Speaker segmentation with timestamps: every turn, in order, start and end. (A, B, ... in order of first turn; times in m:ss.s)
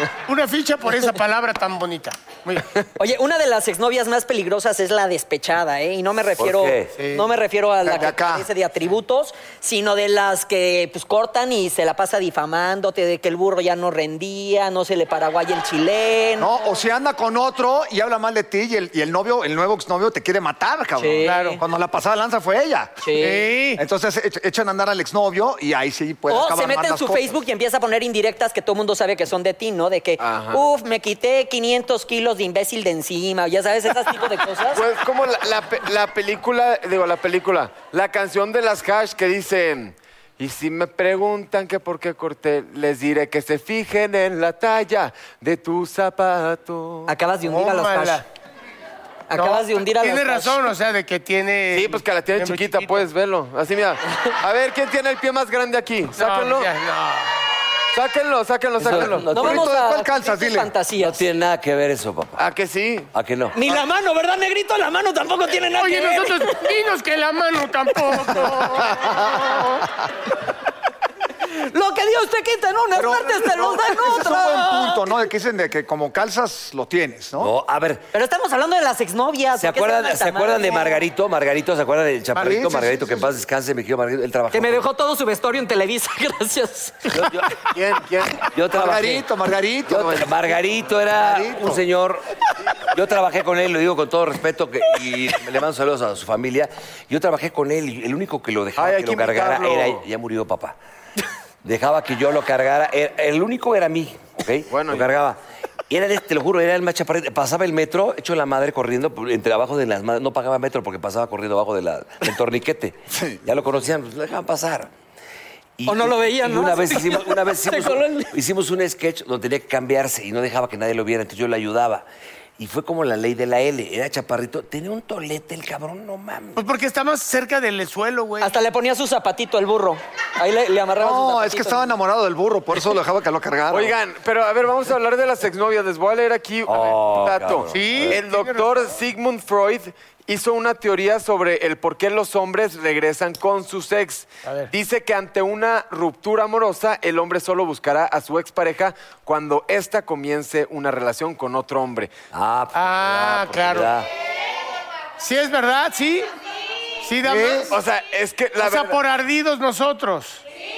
0:00.2-0:02.7 A
0:03.0-0:16.5 B
0:06.4-0:06.9 C
0:07.0-0:07.2 A
0:07.8-0:08.5 D
0:16.4-0:23.0 D
0:21.0-0:21.6 B
0:21.2-0:21.6 A
0:23.0-0:23.4 B
0:23.2-0:23.8 A
0:23.8-0:27.4 D
0:26.3-0:34.8 B
0:30.2-0:30.6 E
0:34.7-0:47.1 E
0:47.1-0:48.2 B
0:47.4-0:48.2 A
0:49.3-0:50.6 B
0:49.3-0:53.1 A
0:51.7-0:56.7 E
0:56.1-0:57.3 A
0:57.9-0:59.2 E
0:58.8-0:59.6 C
0:58.8-1:00.7 D
0:59.3-1:01.2 B
1:01.0-1:02.4 C
1:02.4-1:03.1 E
1:03.1-1:03.6 C
1:03.5-1:06.6 B
1:05.7-1:09.8 A
1:09.0-1:09.4 D
1:11.5-1:15.0 B
1:12.9-1:17.5 D
1:17.4-1:18.1 C
1:18.1-1:21.0 B
1:19.6-1:24.9 C
1:22.3-1:23.3 D
1:24.5-1:27.3 B
1:27.1-1:27.6 C
1:27.8-1:28.3 E
1:28.5-1:29.2 C
1:28.7-1:31.8 D
1:29.9-1:32.2 C
1:32.9-1:40.8 C
1:38.8-1:40.0 E
1:41.6-1:54.9 C
1:44.7-1:45.1 E
1:53.1-1:53.4 D
1:55.8-2:02.0 C
1:55.9-1:58.3 B
2:02.6-2:06.6 C
2:06.5-2:08.6 A
2:08.4-2:11.9 B
2:11.0-2:14.0 D
2:13.7-2:32.1 E
2:16.6-2:18.2 C
2:17.7-2:19.0 A
2:24.4-2:24.7 A
2:32.3-2:34.1 C
2:32.7-2:33.9 A
2:35.2-2:36.3 A
2:37.0-2:37.8 A
2:37.2-2:37.7 D
2:37.7-2:39.0 E
2:38.6-2:40.4 A